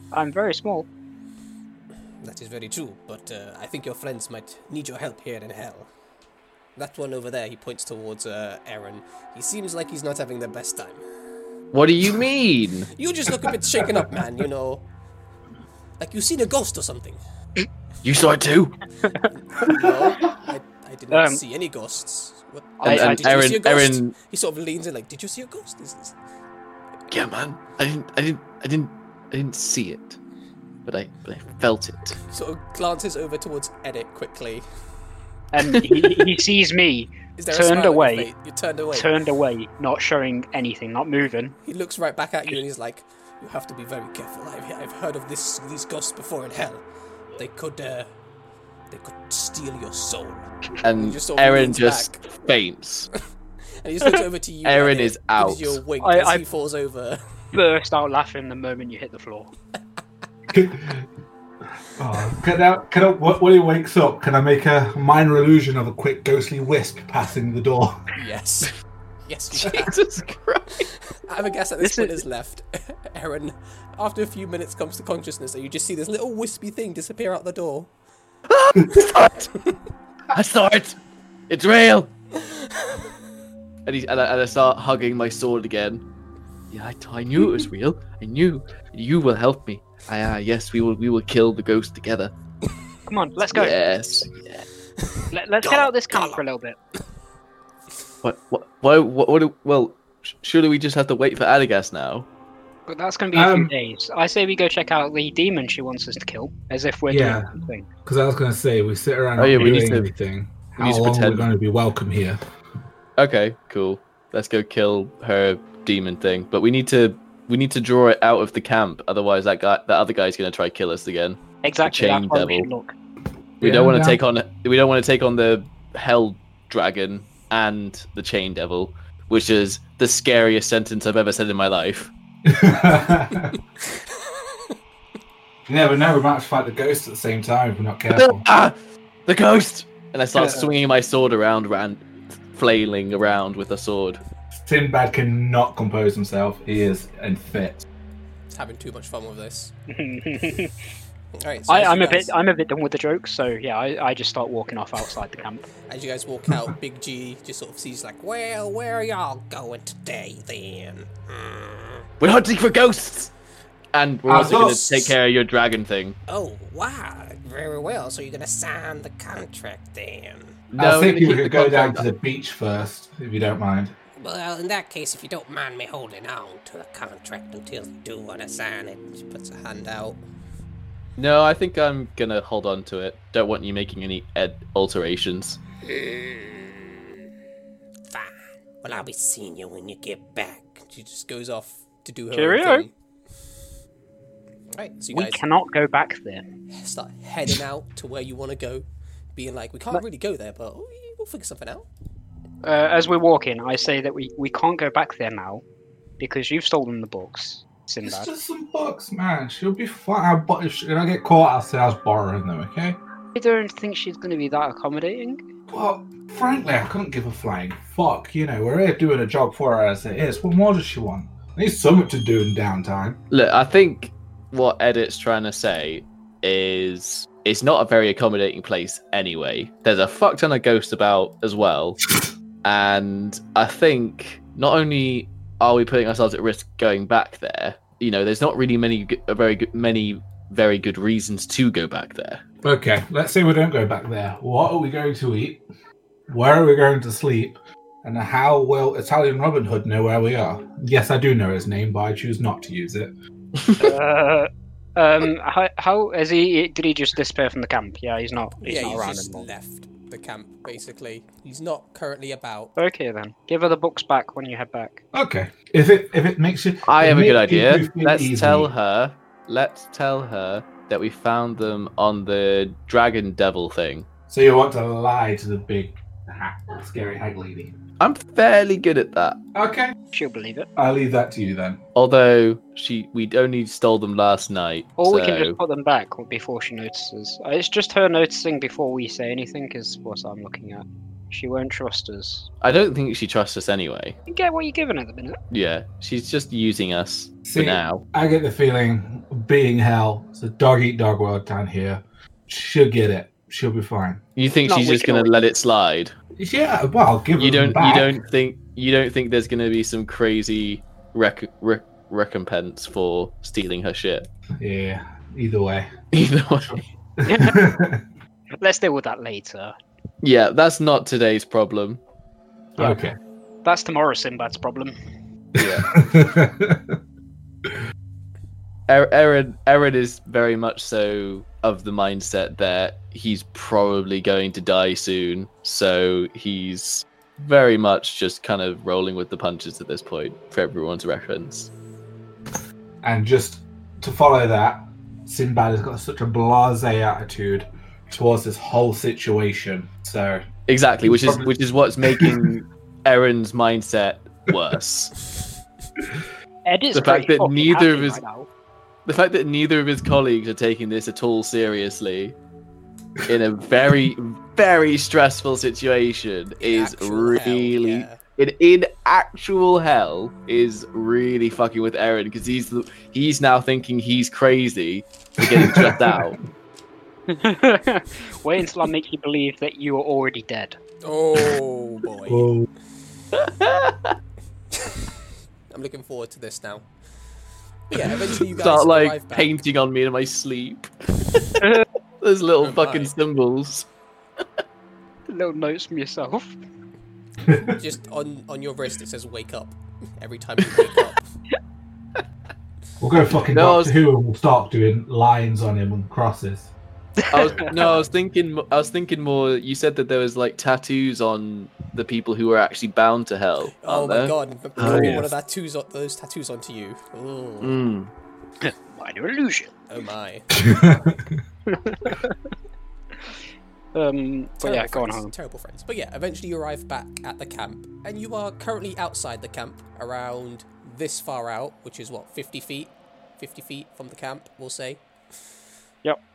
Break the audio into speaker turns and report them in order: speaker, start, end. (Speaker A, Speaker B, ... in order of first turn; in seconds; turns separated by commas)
Speaker A: 0.1-0.9, Speaker B: 2.2-5.9, Speaker B: 6.8-11.0, Speaker C: 11.7-12.9, Speaker B: 12.9-14.8, Speaker B: 16.0-17.2, Speaker C: 18.0-18.8, Speaker A: 19.1-19.9, Speaker B: 19.3-26.1, Speaker A: 21.1-21.4, Speaker A: 22.8-23.5, Speaker C: 22.9-24.1, Speaker C: 27.1-30.2, Speaker C: 30.8-32.2, Speaker B: 32.3-34.6, Speaker A: 35.5-38.3, Speaker B: 37.4-39.1, Speaker A: 38.9-41.5, Speaker B: 41.6-46.8, Speaker B: 47.3-48.1, Speaker B: 48.9-52.2, Speaker C: 50.8-53.1, Speaker B: 53.8-57.2, Speaker C: 54.6-55.8, Speaker A: 56.0-56.4, Speaker A: 57.5-59.5, Speaker D: 60.5-61.0, Speaker D: 61.9-68.0, Speaker B: 68.2-68.7, Speaker B: 69.3-70.0, Speaker C: 69.5-70.9, Speaker B: 70.8-77.9, Speaker A: 71.8-72.2, Speaker C: 78.5-79.5, Speaker C: 80.3-81.0, Speaker C: 81.5-82.1, Speaker C: 83.8-86.0, Speaker C: 86.7-92.3, Speaker A: 93.1-93.7, Speaker C: 93.5-94.6, Speaker A: 95.3-96.8, Speaker B: 95.6-96.4, Speaker C: 98.2-102.2, Speaker A: 102.9-107.9, Speaker D: 103.3-103.7, Speaker D: 107.1-112.4, Speaker C: 109.4-110.1, Speaker C: 110.8-111.5, Speaker C: 113.2-122.7, Speaker A: 121.6-122.9, Speaker D: 123.6-124.2, Speaker C: 123.6-132.1, Speaker D: 132.4-133.6, Speaker D: 135.7-138.4, Speaker C: 138.1-138.8, Speaker C: 139.3-144.2, Speaker A: 140.3-140.7, Speaker D: 144.6-147.9, Speaker B: 148.5-149.7, Speaker A: 149.9-150.7, Speaker B: 151.3-152.3, Speaker A: 151.7-155.6, Speaker B: 155.9-162.0, Speaker C: 162.2-163.3, Speaker C: 163.9-166.2, Speaker D: 164.3-165.1, Speaker B: 164.4-164.8, Speaker B: 166.3-170.5, Speaker C: 170.7-172.1, Speaker D: 170.8-173.9, Speaker B: 174.2-180.2, Speaker C: 181.2-185.6, Speaker B: 185.8-186.9, Speaker B: 188.1-192.9, Speaker A: 192.3-192.8, Speaker B: 194.7-195.4, Speaker A: 195.1-196.4, Speaker B: 196.7-201.9, Speaker A: 202.6-205.6, Speaker A: 206.2-208.3, Speaker D: 208.0-213.0, Speaker A: 213.3-215.4, Speaker D: 215.7-223.2, Speaker C: 223.3-232.1, Speaker C: 232.6-242.4, Speaker D: 242.6-245.6, Speaker D: 246.3-253.1, Speaker C: 253.6-253.9, Speaker A: 253.8-259.5, Speaker B: 258.6-262.7, Speaker A: 262.8-265.0, Speaker D: 265.1-268.7, Speaker C: 266.9-274.1, Speaker D: 274.3-277.8, Speaker C: 278.0-279.4, Speaker D: 279.5-279.9, Speaker A: 280.1-280.7, Speaker D: 280.8-281.8, Speaker C: 281.9-285.6, Speaker A: 285.0-292.5, Speaker C: 292.6-294.2, Speaker A: 294.3-295.4, Speaker C: 295.5-298.0, Speaker D: 297.4-304.2, Speaker C: 304.4-306.1, Speaker A: 304.6-305.3, Speaker D: 306.4-308.2, Speaker C: 307.4-314.3, Speaker D: 314.6-315.9, Speaker C: 316.1-316.8, Speaker D: 316.7-318.0, Speaker A: 317.2-317.6, Speaker A: 318.6-319.7, Speaker C: 320.2-322.0, Speaker D: 322.8-323.1, Speaker A: 322.8-323.0, Speaker A: 323.6-324.9, Speaker D: 325.6-327.0, Speaker C: 325.6-325.9, Speaker C: 328.9-341.7, Speaker D: 343.0-350.5, Speaker C: 350.7-355.2, Speaker D: 351.0-352.5, Speaker A: 356.6-358.5, Speaker C: 356.9-358.2, Speaker C: 359.1-362.3, Speaker C: 363.3-376.4, Speaker B: 366.6-368.2, Speaker D: 375.4-376.2, Speaker A: 377.3-380.8, Speaker B: 381.0-382.5, Speaker D: 382.3-382.7, Speaker C: 383.3-384.1, Speaker B: 385.7-386.9, Speaker B: 387.9-389.6, Speaker C: 387.9-391.5, Speaker C: 392.2-393.9, Speaker B: 392.6-393.1, Speaker A: 395.3-396.6, Speaker D: 397.4-397.8, Speaker B: 397.6-401.3, Speaker D: 403.0-406.7, Speaker C: 403.5-403.9, Speaker C: 407.3-415.3, Speaker A: 407.3-407.7, Speaker B: 407.7-408.1, Speaker B: 413.8-417.8, Speaker A: 414.9-415.2, Speaker C: 417.6-418.1, Speaker A: 418.6-419.7, Speaker B: 419.9-420.9, Speaker D: 420.5-421.4, Speaker A: 421.7-422.4, Speaker A: 423.9-425.3, Speaker B: 424.6-435.0